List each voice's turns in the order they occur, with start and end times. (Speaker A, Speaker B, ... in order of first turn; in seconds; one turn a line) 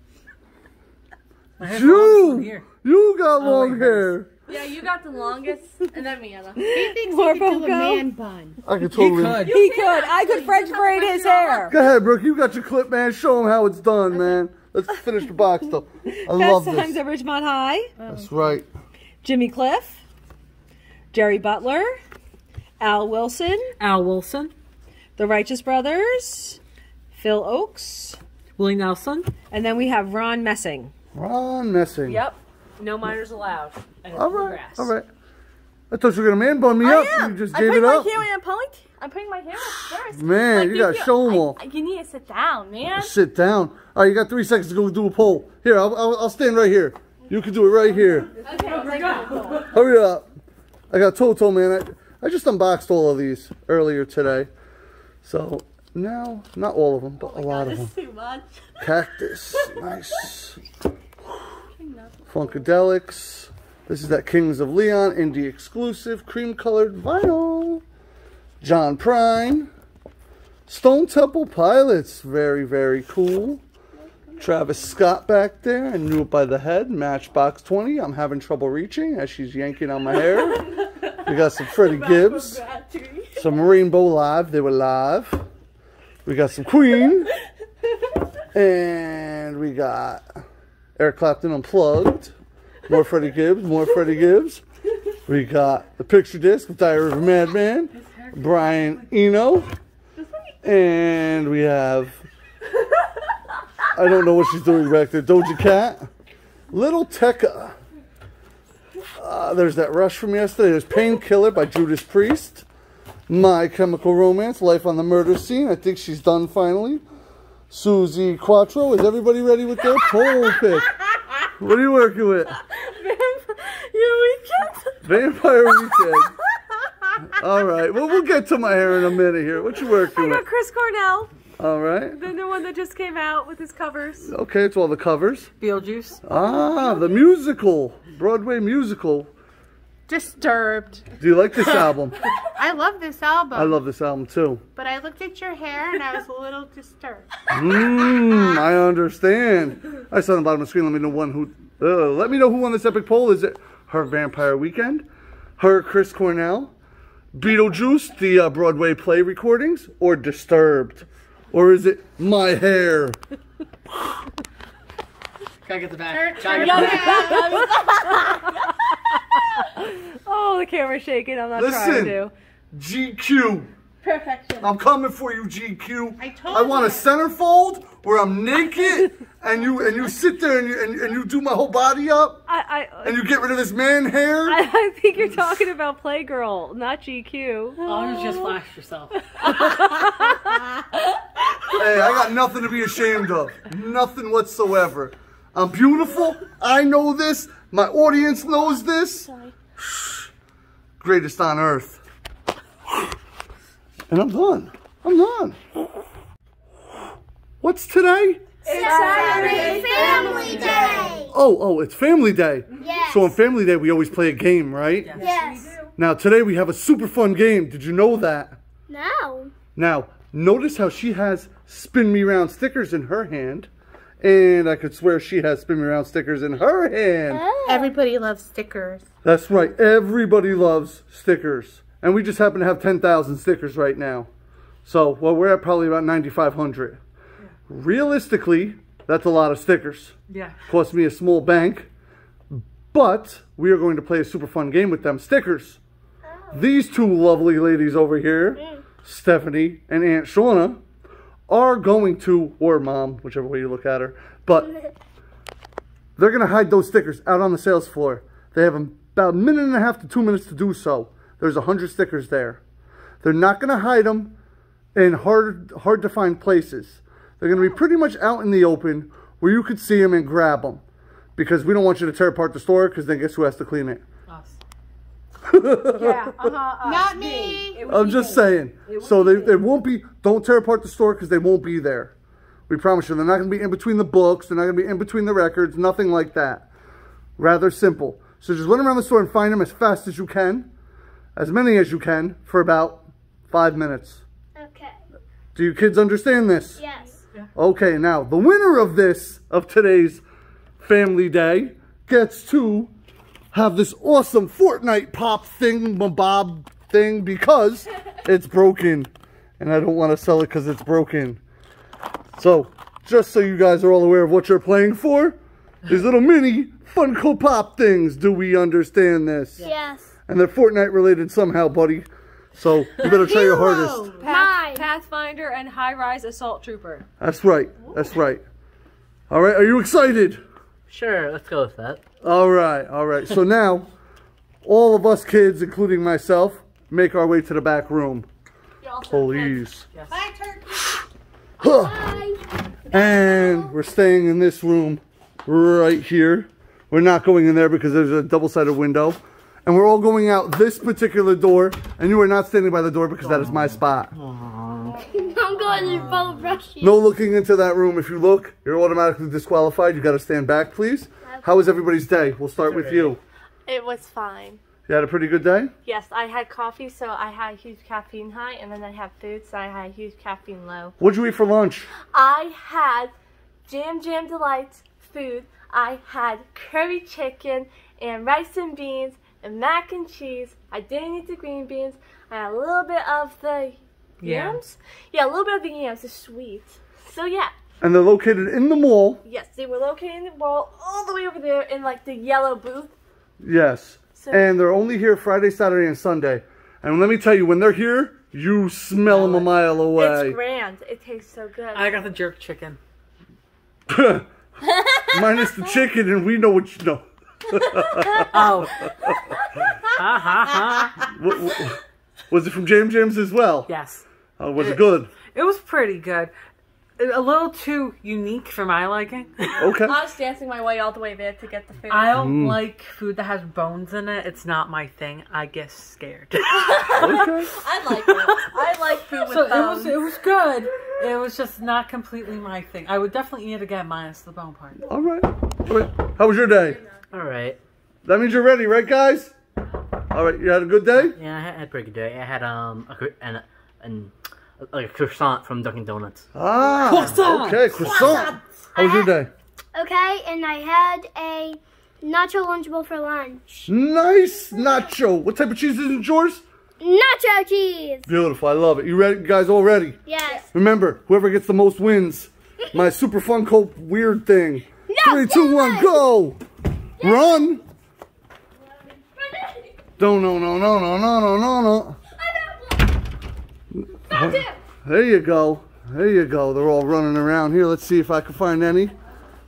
Speaker A: 1.6-2.7
Speaker B: 1.6-4.3
Speaker A: 3.4-4.0
Speaker C: 4.5-6.7
Speaker D: 6.5-8.1
Speaker E: 6.7-8.6
Speaker B: 8.6-9.4
Speaker A: 8.9-9.6
Speaker D: 9.4-11.8
Speaker C: 9.4-11.8
Speaker B: 11.7-17.0
Speaker D: 16.1-17.9
Speaker E: 18.0-18.3
Speaker B: 18.1-18.7
Speaker D: 19.2-20.0
Speaker D: 21.1-22.0
Speaker D: 22.8-23.7
Speaker A: 23.8-24.5
Speaker D: 25.2-26.6
Speaker D: 27.1-28.2
Speaker A: 28.6-29.3
Speaker D: 29.5-30.9
Speaker B: 31.1-32.2
Speaker D: 32.1-34.9
Speaker B: 34.1-35.1
Speaker B: 35.9-38.2
Speaker C: 36.8-43.1
Speaker B: 39.6-41.6
Speaker B: 43.0-48.3
Speaker C: 48.4-49.7
Speaker D: 48.5-49.6
Speaker A: 48.6-49.5
Speaker B: 49.6-50.3
Speaker B: 50.9-54.5
Speaker B: 55.2-57.9
Speaker C: 57.2-58.9
Speaker B: 58.8-60.6
Speaker C: 61.7-62.7
Speaker B: 62.3-67.8
Speaker B: 68.6-69.7
Speaker B: 70.7-73.6
Speaker B: 74.4-80.7
Speaker B: 81.2-82.6
Speaker C: 81.7-83.5
Speaker B: 83.3-85.5
Speaker B: 86.2-87.3
Speaker B: 88.5-90.2
Speaker B: 91.0-92.3
Speaker B: 92.9-94.6
Speaker B: 95.2-99.7
Speaker A: 98.0-99.0
Speaker B: 100.6-102.3
Speaker B: 103.9-106.1
Speaker B: 106.7-107.8
Speaker B: 109.2-112.6
Speaker B: 113.3-117.0
Speaker B: 117.7-120.9
Speaker B: 121.5-122.5
Speaker D: 122.7-125.1
Speaker B: 125.0-126.3
Speaker B: 127.3-130.4
Speaker D: 129.9-131.3
Speaker B: 131.6-132.2
Speaker D: 132.1-134.3
Speaker B: 134.2-135.5
Speaker A: 135.6-136.2
Speaker B: 136.2-139.3
Speaker E: 140.1-141.1
Speaker B: 141.2-142.2
Speaker E: 142.5-143.8
Speaker B: 143.5-144.6
Speaker E: 144.8-147.9
Speaker B: 147.5-155.1
Speaker B: 155.6-156.7
Speaker B: 157.3-163.2
Speaker A: 165.6-167.6
Speaker E: 166.1-167.6
Speaker D: 166.5-172.3
Speaker C: 166.5-168.4
Speaker B: 171.5-172.2
Speaker B: 172.7-173.7
Speaker C: 174.0-174.7
Speaker B: 174.6-182.4
Speaker E: 176.2-177.1
Speaker D: 182.5-183.2
Speaker B: 183.0-184.6
Speaker D: 184.5-188.3
Speaker A: 187.8-190.0
Speaker D: 189.4-191.2
Speaker B: 191.7-200.3
Speaker C: 199.0-199.5
Speaker B: 201.0-202.0
Speaker B: 204.1-205.9
Speaker B: 207.6-208.5
Speaker D: 208.6-211.2
Speaker F: 208.7-211.3
Speaker C: 208.7-211.0
Speaker A: 209.1-211.1
Speaker E: 209.3-211.1
Speaker B: 211.3-215.2
Speaker F: 212.7-213.3
Speaker A: 215.0-215.7
Speaker F: 215.1-215.8
Speaker D: 215.2-215.8
Speaker B: 216.0-218.6
Speaker F: 218.9-219.5
Speaker B: 219.7-223.7
Speaker B: 224.2-227.5
Speaker F: 227.3-227.9
Speaker E: 227.7-229.1
Speaker B: 229.2-234.3
Speaker B: 234.8-237.0
Speaker B: 237.7-240.1
Speaker A: 240.3-240.6
Speaker B: 240.7-241.9
Speaker B: 242.5-245.8
Speaker F: 246.2-246.7
Speaker B: 246.5-250.8
Speaker F: 248.6-248.8
Speaker B: 251.5-254.7
Speaker F: 254.6-254.9
Speaker B: 256.2-262.6
Speaker B: 263.2-264.4
Speaker B: 264.9-270.8
Speaker B: 271.4-274.0
Speaker A: 274.3-274.6
Speaker B: 275.4-276.5
Speaker D: 275.9-279.6
Speaker E: 276.8-277.8
Speaker B: 277.9-282.1
Speaker B: 282.7-286.7
Speaker B: 287.4-290.7
Speaker B: 291.4-294.2
Speaker F: 294.5-295.0
Speaker B: 295.5-296.8
Speaker F: 296.8-297.2
Speaker B: 297.6-300.2
Speaker B: 300.8-302.9
Speaker B: 303.5-311.4
Speaker B: 312.4-319.6
Speaker F: 319.6-320.1
Speaker B: 320.3-324.1
Speaker F: 323.0-324.9
Speaker E: 323.1-323.6
Speaker E: 324.1-324.4
Speaker D: 324.2-327.1
Speaker B: 327.2-328.4
Speaker B: 329.3-330.4
Speaker G: 330.9-332.0
Speaker B: 332.2-333.9
Speaker B: 334.6-338.3
Speaker C: 338.8-339.6
Speaker B: 339.1-339.9
Speaker E: 340.1-341.0
Speaker B: 341.6-342.1
Speaker F: 341.6-343.7
Speaker B: 342.9-354.1
Speaker G: 353.2-355.0
Speaker F: 354.9-357.1
Speaker G: 355.8-356.4
Speaker B: 356.8-363.2
Speaker G: 362.6-363.1
Speaker C: 363.6-364.6
Speaker B: 364.9-365.7
Speaker C: 365.8-370.9
Speaker B: 371.0-371.9
Speaker C: 372.1-373.1
Speaker C: 373.7-387.5
Speaker A: 384.2-384.6
Speaker B: 387.8-389.2
Speaker C: 389.2-392.9
Speaker B: 393.4-400.4
Speaker C: 394.1-394.5
Speaker A: 399.1-399.4
Speaker C: 399.9-402.1
Speaker A: 401.7-402.8
Speaker B: 403.9-404.3
Speaker B: 405.1-409.2
Speaker A: 408.3-408.9
Speaker A: 409.8-411.1
Speaker B: 411.1-413.7
Speaker A: 413.7-414.0
Speaker B: 414.4-415.1
Speaker A: 415.3-416.3
Speaker A: 417.0-419.7
Speaker B: 419.6-420.0
Speaker C: 419.6-422.2
Speaker A: 421.9-427.3
Speaker B: 422.1-422.6
Speaker C: 426.5-430.0
Speaker B: 427.0-427.6
Speaker A: 427.9-428.5
Speaker A: 429.1-434.8
Speaker B: 434.8-436.8
Speaker G: 437.1-437.6
Speaker B: 438.0-439.3
Speaker B: 440.1-441.2
Speaker G: 441.1-446.3
Speaker B: 446.3-449.3
Speaker A: 446.8-448.2
Speaker G: 446.9-447.2
Speaker F: 448.8-449.2
Speaker F: 449.7-453.7
Speaker B: 453.7-456.4
Speaker F: 454.4-454.9
Speaker F: 456.8-458.1
Speaker B: 458.1-460.0
Speaker F: 460.0-460.5
Speaker B: 460.5-466.4
Speaker F: 464.9-466.1
Speaker B: 467.0-467.6
Speaker F: 467.0-467.5
Speaker B: 470.0-472.0
Speaker B: 473.7-478.9
Speaker C: 474.1-474.5